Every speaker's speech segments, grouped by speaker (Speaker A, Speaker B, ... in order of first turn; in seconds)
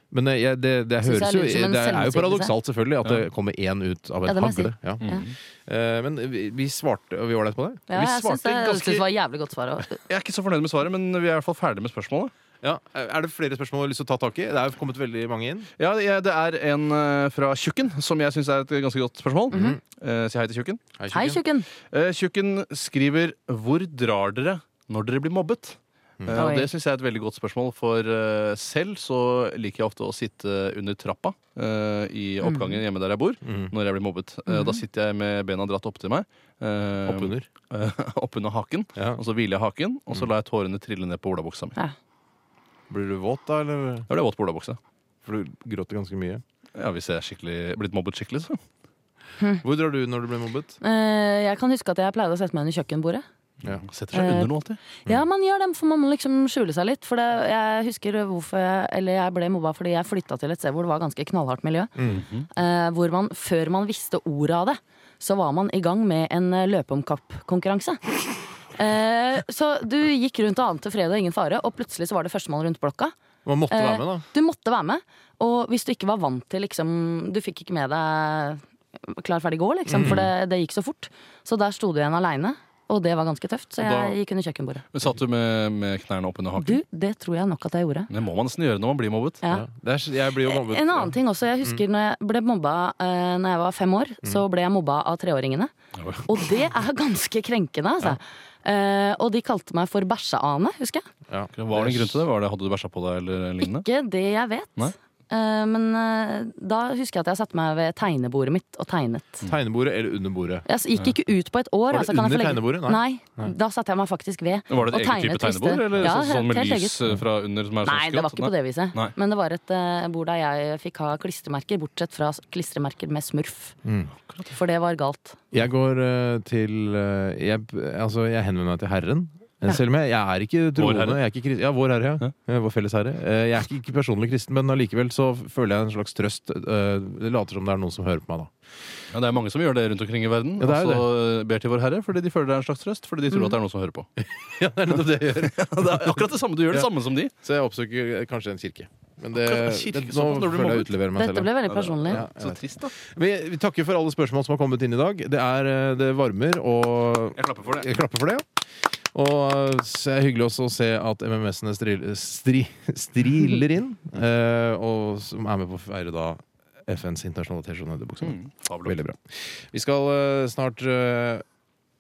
Speaker A: 0.1-7.9, 12.6-15.7, 19.5-19.8, 21.0-21.4, 26.2-26.5, 33.5-33.7, 37.0-37.5, 42.9-44.1, 45.2-46.4, 49.6-50.8, 62.0-62.3, 73.5-74.2, 79.9-80.3, 89.5-91.8, 101.3-102.2, 109.5-110.7, 111.9-113.5, 123.8-124.1, 125.5-138.5, 140.6-141.1, 144.2-146.9, 147.4-151.6, 152.1-158.4, 159.1-171.4
Speaker B: 1.0-2.6, 4.2-5.2, 7.9-10.0, 19.5-19.8, 21.1-21.7, 26.3-26.7, 32.4-32.8, 34.5-34.8, 50.8-53.2, 54.1-62.0, 62.5-68.2, 68.7-73.1, 73.7-84.8, 86.6-88.1, 89.4-89.7, 90.3-95.7, 96.2-101.1, 103.6-109.5, 110.7-117.0, 117.8-123.8, 124.5-125.4, 143.3-143.6, 151.2-152.2
Speaker C: 5.0-5.4, 7.9-9.1, 10.1-12.3, 15.8-20.8, 21.9-41.8, 44.1-44.8, 46.8-48.6, 53.6-54.8, 62.0-62.5, 83.8-84.2, 84.9-86.8, 88.1-89.4, 96.0-96.3, 101.5-103.9, 114.7-119.1, 130.8-131.2, 139.1-144.1, 144.9-147.3, 149.3-150.9, 151.6-152.9, 157.3-157.9, 168.2-169.0